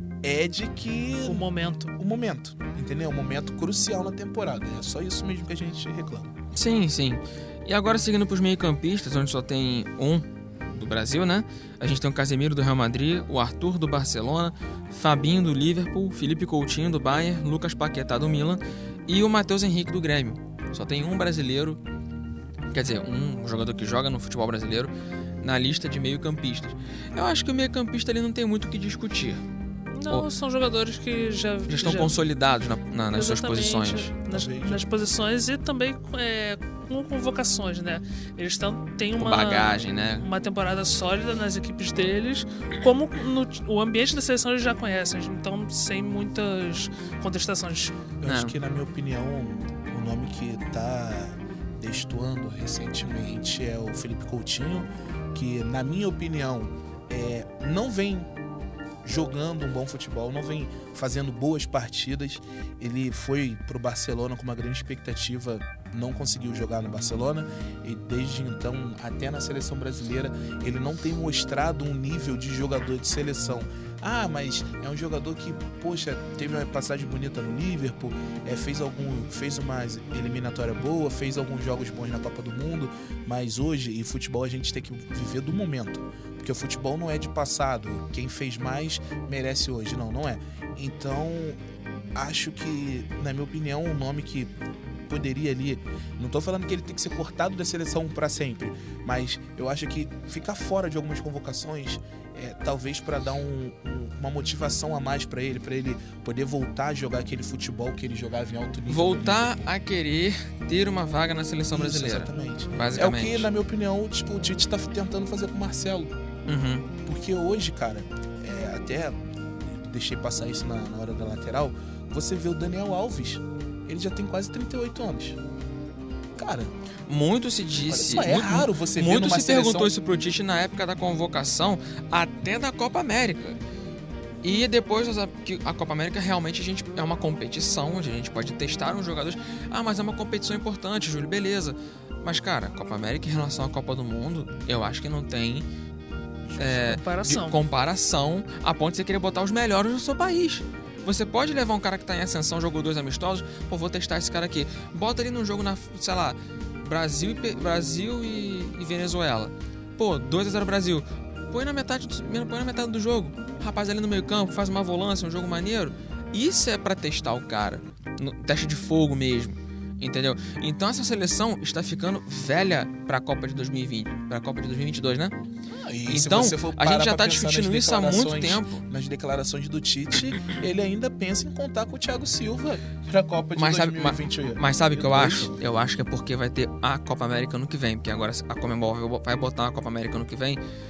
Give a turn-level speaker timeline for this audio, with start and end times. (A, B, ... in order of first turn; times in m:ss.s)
0:00.2-0:06.3 A
0:01.2-0:01.9 B
0:06.5-0:21.8 C
0:22.7-0:29.4 C
0:29.9-0:32.2 B
0:31.7-0:34.1 C
0:33.1-0:48.0 B
0:34.3-0:34.9 A
0:39.2-0:40.3 C
0:48.2-0:58.3 A
0:48.2-0:48.6 C
0:59.0-1:31.6 A
1:32.1-1:34.5 A
1:35.1-1:49.7 A
1:48.9-1:53.5 C
1:51.7-1:56.1 A
1:56.4-1:56.9 C
1:57.0-2:05.4 A
2:06.4-2:06.7 A
2:07.1-2:13.6 C
2:07.9-2:09.9 A
2:14.4-2:25.7 C
2:26.5-2:26.8 A
2:26.6-2:55.4 C
2:26.7-2:27.6 B
2:55.8-3:05.5 A
2:56.1-2:58.8 C
3:03.5-3:10.6 C